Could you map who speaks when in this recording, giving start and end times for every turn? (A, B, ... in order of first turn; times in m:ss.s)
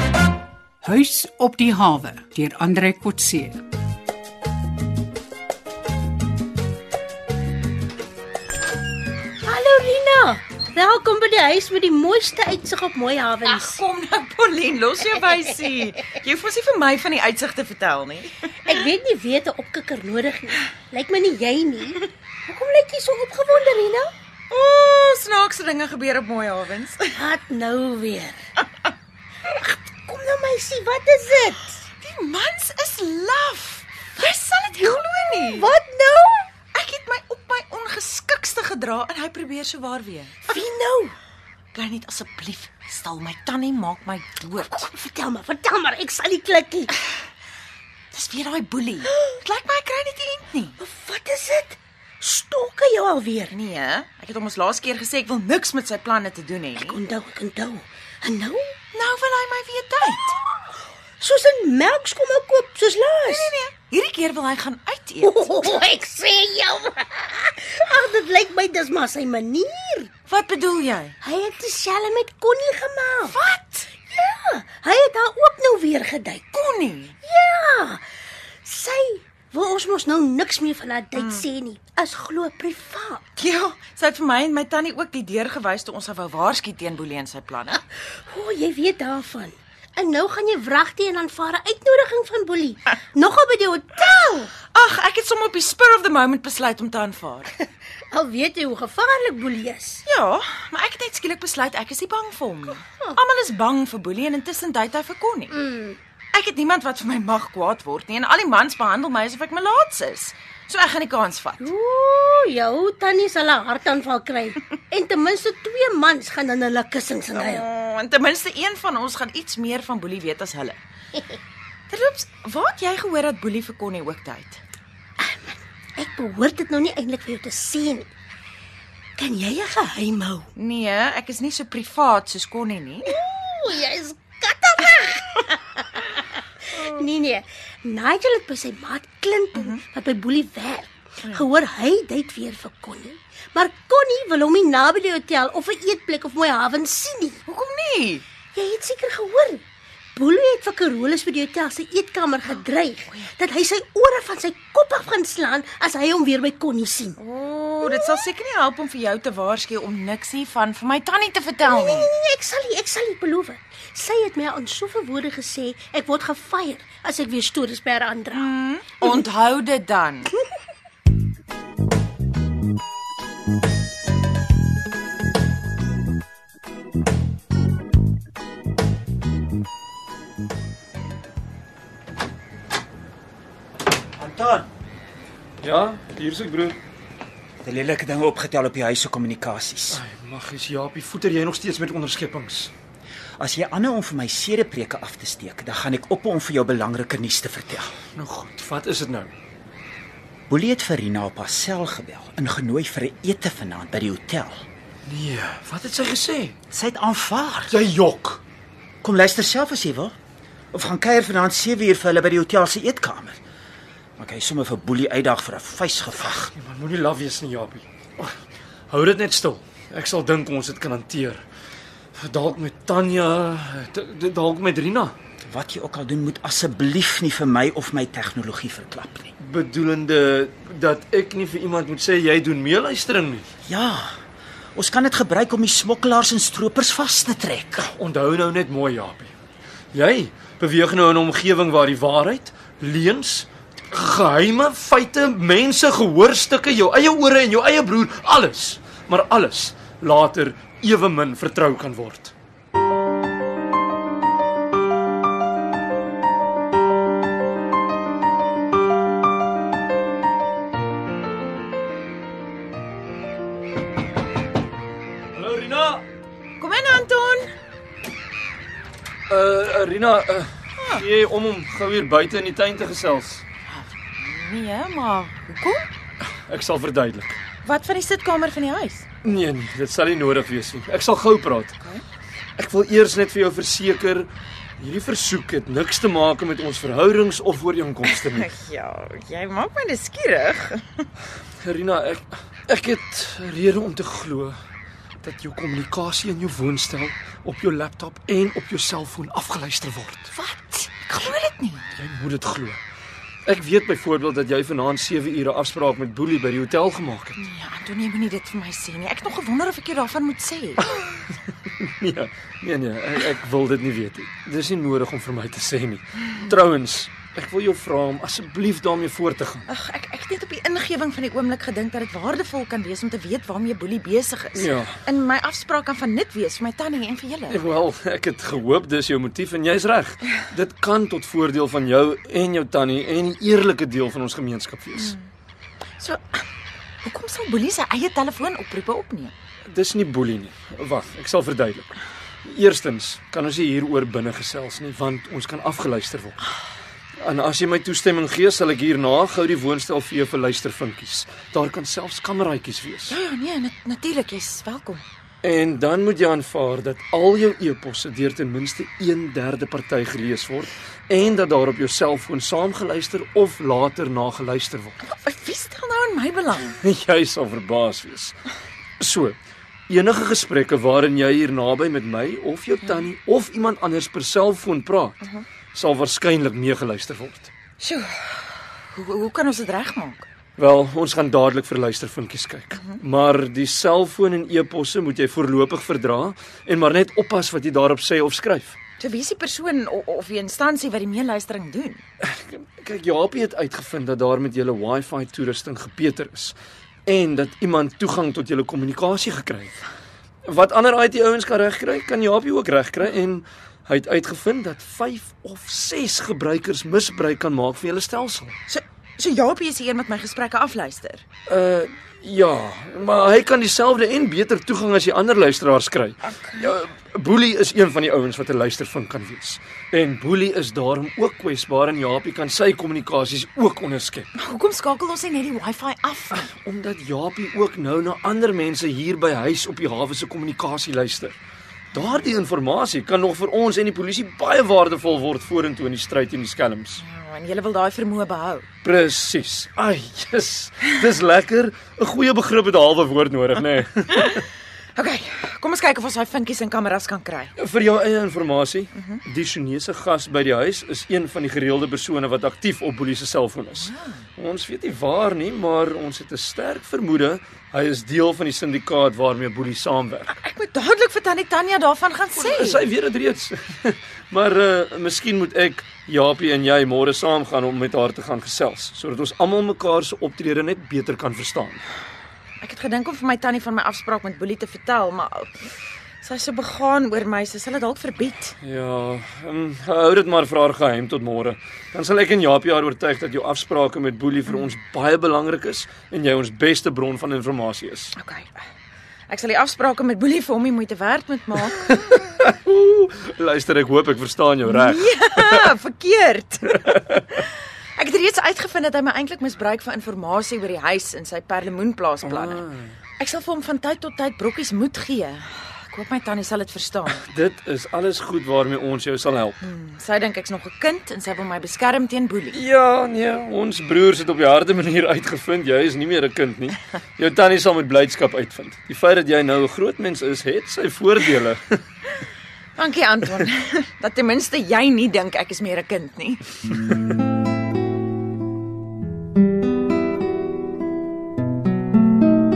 0:00.8-0:03.6 A
0:09.4-0:13.8 B
0:13.4-0:18.3 C
0:18.7-0:24.1 B
0:24.5-0:27.1 C
0:27.2-0:28.4 B
0:29.5-0:31.8 B
0:32.0-0:35.7 C
0:35.5-0:36.5 B
0:36.7-0:40.5 C
0:40.5-0:41.2 B
0:41.7-0:44.9 C
0:44.7-0:46.9 B
0:48.1-0:50.8 C
0:50.8-0:53.5 B
0:53.5-0:57.0 C
0:56.8-0:58.8 B
0:58.9-1:00.3 C
1:01.2-1:03.5 B
1:03.2-1:05.7 C
1:05.2-1:10.1 B
1:10.3-1:11.2 C
1:11.2-1:13.4 B
1:13.3-1:13.9 C
1:14.1-1:16.5 B
1:16.5-1:17.2 C
1:17.2-1:18.0 B
1:18.6-1:23.2 B
1:21.2-1:21.4 C
1:23.4-1:27.8 C
1:28.2-1:34.5 B
1:34.7-1:37.5 C
1:37.6-1:40.0 B
1:40.1-1:45.5 C
1:45.5-1:46.0 B
1:46.3-1:51.7 C
1:51.6-1:57.6 B
1:57.4-2:00.8 C
2:01.9-2:04.6 C
2:05.2-2:08.1 B
2:09.2-2:10.5 B
2:10.6-2:13.1 C
2:13.1-2:27.4 B
2:27.5-2:28.2 C
2:28.6-2:29.6 B
2:30.2-2:37.2 B
2:37.2-2:42.1 C
2:37.8-2:38.2 B
2:41.6-2:48.5 B
2:48.3-2:50.3 C
3:04.2-3:04.7 D
3:05.6-3:06.8 E
3:07.6-3:10.0 D
3:09.9-3:12.7 E
3:13.4-3:17.9 D
3:18.0-3:19.3 E
3:20.5-3:24.6 D
3:25.0-3:26.6 E
3:26.7-3:27.8 D
3:27.7-3:28.4 E
3:29.0-3:30.2 D
3:30.7-3:33.4 D
3:34.2-3:36.5 D
3:36.2-3:38.3 E
3:38.9-3:41.4 E
3:42.2-3:45.2 E
3:45.4-3:49.3 D
3:49.4-3:53.5 E
3:53.6-3:54.1 D
3:54.8-3:57.9 D
3:57.8-3:59.3 E
3:59.9-4:12.3 E
4:25.3-4:26.0 E
4:26.6-4:27.5 C
4:29.3-4:33.4 E
4:30.8-4:31.1 C
4:33.7-4:35.9 C
4:36.5-4:37.4 E
4:37.6-4:39.0 C
4:39.2-4:41.8 E
4:42.6-4:48.5 E
4:48.0-4:51.0 C
4:51.6-4:54.6 E
4:55.2-5:00.3 E
5:00.3-5:01.9 C
5:02.0-5:02.8 E
5:03.4-5:07.4 E
5:07.4-5:10.8 C
5:11.8-5:19.7 E
5:19.7-5:27.6 C
5:24.6-5:25.0 E
5:27.5-5:35.2 E
5:35.0-5:35.2 C
5:36.0-5:36.4 C
5:37.0-5:39.3 C
5:39.7-5:41.9 E
5:42.4-5:46.5 E
5:47.2-5:53.2 E
5:53.1-5:55.0 C
5:55.4-6:05.0 E
6:05.0-6:06.7 C
6:06.7-6:08.4 E
6:09.0-6:09.4 E
6:09.9-6:15.2 E
6:15.7-6:17.5 E
6:17.8-6:18.4 C
6:18.9-6:20.3 C
6:20.6-6:28.8 E
6:22.7-6:23.0 C
6:29.0-6:32.0 C
6:32.2-6:39.8 E
6:40.4-6:48.6 E
6:48.7-6:51.2 C
6:51.5-7:04.3 E
6:56.3-6:56.7 C
7:04.4-7:06.5 C
7:06.3-7:11.4 E
7:11.9-7:17.0 E
7:12.0-7:12.2 C
7:17.0-7:18.7 C
7:18.8-7:24.5 E
7:25.0-7:27.5 C
7:27.6-7:40.3 E
7:29.0-7:29.2 C
7:33.8-7:34.2 C
7:40.3-7:42.9 C
7:42.3-7:51.8 E
7:52.6-7:55.7 C
7:56.2-7:58.6 C
7:58.6-8:08.1 E
8:08.2-8:08.6 C
8:09.3-8:11.9 C
8:11.8-8:15.7 E
8:14.7-8:22.6 C
8:16.9-8:17.2 E
8:22.2-8:23.0 E
8:23.2-8:27.2 C
8:27.1-8:29.6 E
8:29.6-8:32.6 C
8:32.5-8:41.8 E
8:42.8-8:46.4 C